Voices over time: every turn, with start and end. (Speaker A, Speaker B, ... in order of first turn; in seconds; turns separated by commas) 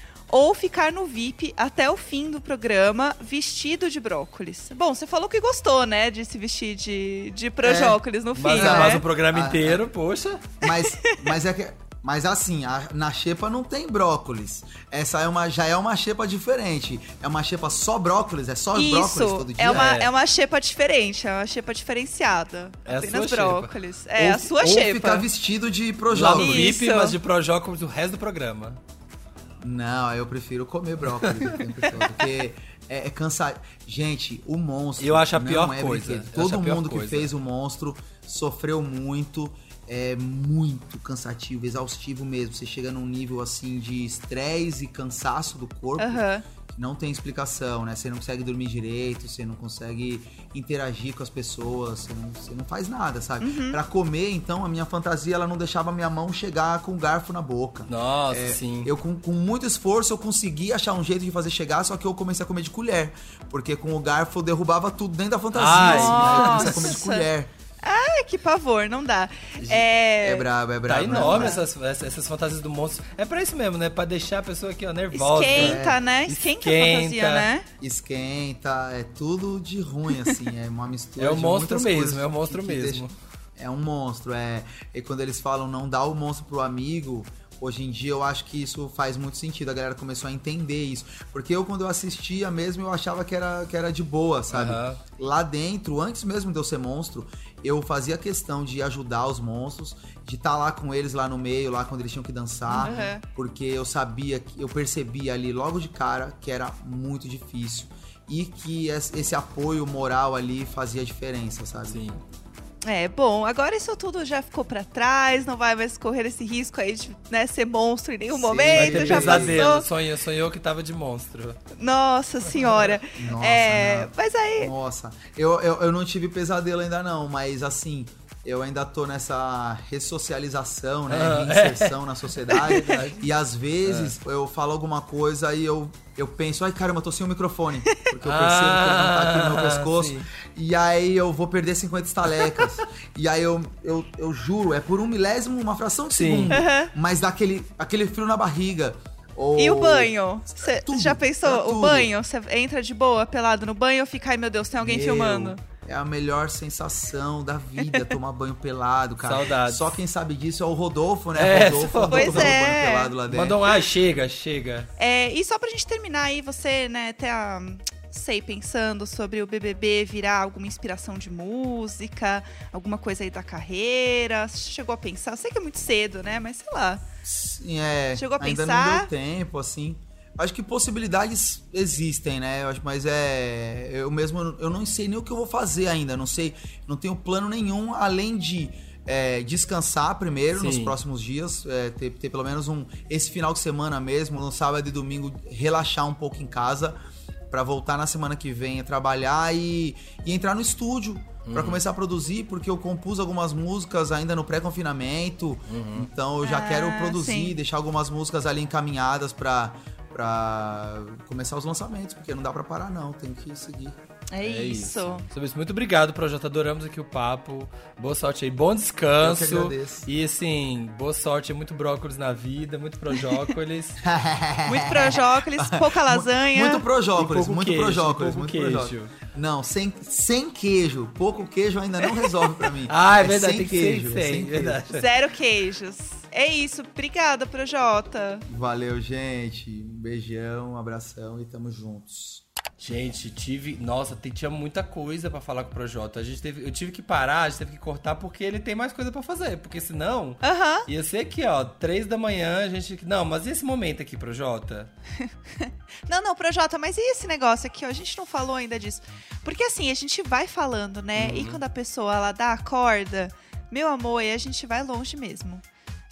Speaker A: 0.3-9.1, Speaker B: 7.6-9.8, Speaker C: 8.4-10.5, Speaker B: 10.6-19.9, Speaker A: 10.6-11.3, Speaker A: 18.7-25.3, Speaker C: 19.7-20.1, Speaker C: 22.9-23.7, Speaker B: 24.2-26.7, Speaker C: 26.1-28.8, Speaker A: 26.2-27.2, Speaker B: 29.6-67.5, Speaker C: 31.2-31.6, Speaker C: 35.0-37.3, Speaker A: 46.0-46.4, Speaker A: 53.4-53.8, Speaker C: 57.9-58.9, Speaker C: 65.5-66.9, Speaker A: 65.8-67.3, Speaker A: 67.8-70.5, Speaker B: 70.2-71.6, Speaker C: 70.9-77.5, Speaker A: 71.1-71.6, Speaker A: 75.1-77.7, Speaker B: 75.5-76.0, Speaker B: 77.8-83.0, Speaker C: 81.2-83.1, Speaker B: 83.6-112.0, Speaker C: 94.5-95.0, Speaker A: 102.7-103.2, Speaker C: 102.8-103.1, Speaker C: 111.9-112.2, Speaker A: 112.8-119.8, Speaker B: 118.3-119.7, Speaker C: 118.7-121.6, Speaker A: 121.8-124.7, Speaker C: 122.6-122.9, Speaker B: 123.2-152.1, Speaker C: 131.1-133.3, Speaker C: 133.9-134.1, Speaker C: 138.2-140.3, Speaker C: 146.1-146.5, Speaker A: 146.5-146.9, Speaker A: 149.6-155.6, Speaker B: 154.8-163.6, Speaker A: 157.8-158.1, Speaker C: 159.2-160.0, Speaker C: 161.3-162.6, Speaker A: 162.1-163.1, Speaker C: 163.3-164.9, Speaker A: 165.0-177.0, Speaker B: 177.2-197.0, Speaker A: 178.2-179.1, Speaker C: 190.5-191.0, Speaker B: 197.5-214.0, Speaker C: 201.4-201.8, Speaker C: 205.7-206.1, Speaker A: 206.4-207.6, Speaker A: 214.3-215.3, Speaker C: 214.4-224.0, Speaker B: 219.2-220.1, Speaker B: 224.0-234.8, Speaker A: 224.7-226.8, Speaker C: 227.2-229.1, Speaker C: 232.9-235.1, Speaker A: 234.9-238.4, Speaker B: 238.5-242.4, Speaker C: 242.8-254.9, Speaker A: 250.4-250.9, Speaker A: 255.2-265.6, Speaker C: 261.2-261.6